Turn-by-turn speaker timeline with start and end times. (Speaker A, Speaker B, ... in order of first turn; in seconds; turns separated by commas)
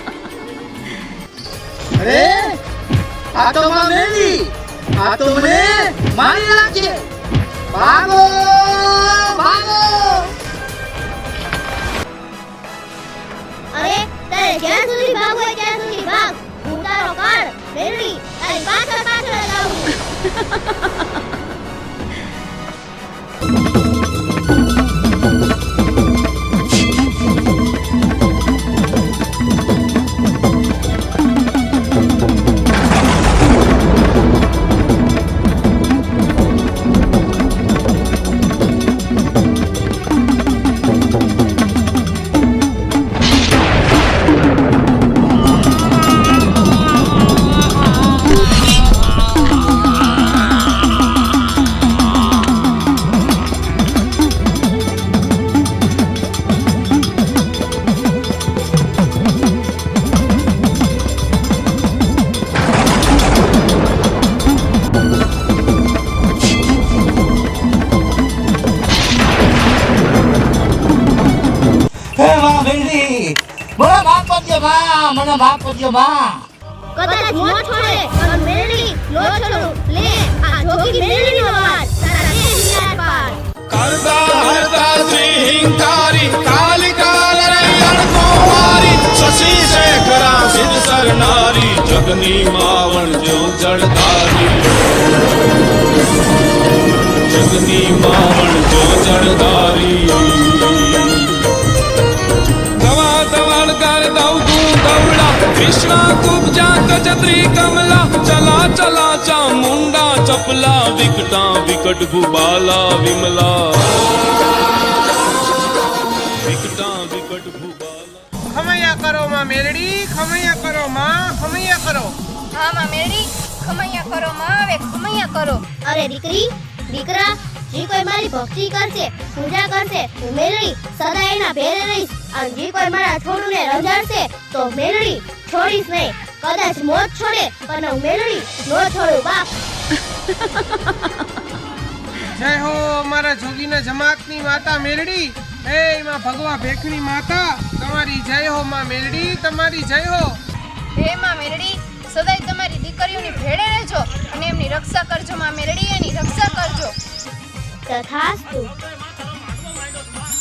Speaker A: 1.9-2.6, Speaker A: 3.3-7.0, Speaker A: 7.7-10.3, Speaker B: 13.7-19.9, Speaker A: 72.2-76.4, Speaker B: 76.9-83.4, Speaker C: 83.7-95.0, Speaker C: 97.3-101.4, Speaker C: 102.8-114.0, Speaker C: 116.4-118.2, Speaker D: 118.5-122.1, Speaker E: 122.5-125.6, Speaker B: 125.8-139.5, Speaker D: 142.2-150.4, Speaker E: 150.9-156.9, Speaker B: 157.9-158.7